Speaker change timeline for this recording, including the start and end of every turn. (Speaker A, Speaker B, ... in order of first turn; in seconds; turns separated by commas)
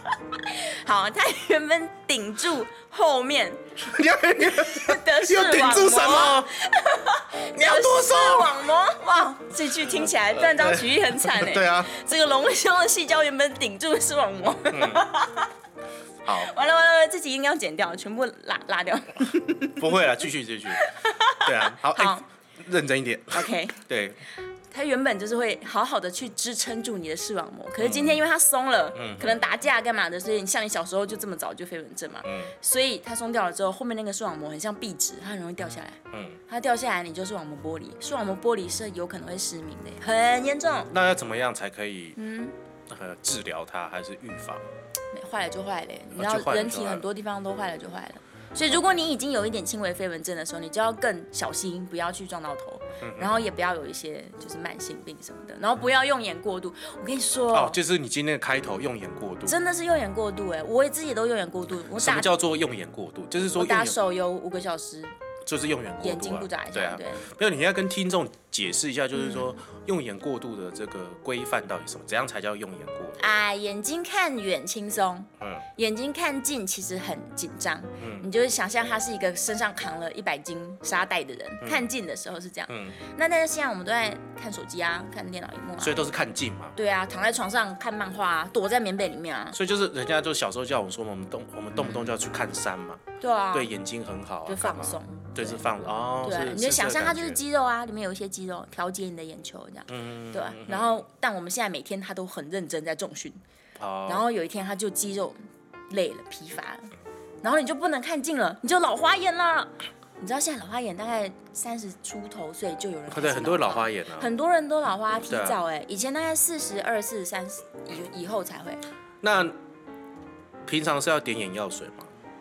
Speaker A: 0.4-3.6, Speaker B: 3.8-6.5, Speaker A: 4.6-15.5, Speaker B: 7.5-8.6, Speaker B: 9.9-11.9, Speaker B: 14.7-15.1, Speaker B: 16.2-16.5, Speaker A: 16.3-19.9, Speaker B: 19.8-20.8, Speaker A: 20.7-22.3, Speaker B: 21.4-24.2, Speaker A: 23.3-23.8, Speaker A: 24.7-40.9, Speaker B: 27.8-28.2, Speaker B: 28.9-29.4, Speaker B: 32.2-32.5, Speaker B: 36.1-36.4, Speaker B: 40.9-42.2, Speaker A: 42.2-42.5, Speaker B: 42.9-44.6, Speaker A: 45.1-57.8, Speaker B: 46.1-47.0, Speaker B: 53.0-53.4, Speaker B: 57.5-59.6, Speaker A: 59.5-62.3, Speaker B: 62.0-64.0, Speaker A: 63.6-65.2, Speaker B: 65.5-73.2, Speaker A: 66.0-67.3, Speaker A: 69.1-69.6, Speaker A: 73.2-86.1, Speaker B: 75.4-75.7, Speaker B: 78.0-78.3, Speaker B: 82.7-83.0, Speaker B: 85.8-86.8, Speaker A: 86.8-89.6, Speaker B: 89.5-97.4, Speaker A: 91.8-92.1, Speaker A: 93.2-93.7, Speaker A: 94.5-95.6, Speaker A: 96.2-103.4, Speaker B: 99.9-101.0, Speaker B: 103.8-104.2, Speaker A: 104.1-106.9, Speaker A: 107.4-118.8, Speaker B: 113.1-114.3, Speaker B: 115.3-115.6, Speaker B: 119.2-119.5, Speaker B: 120.7-122.1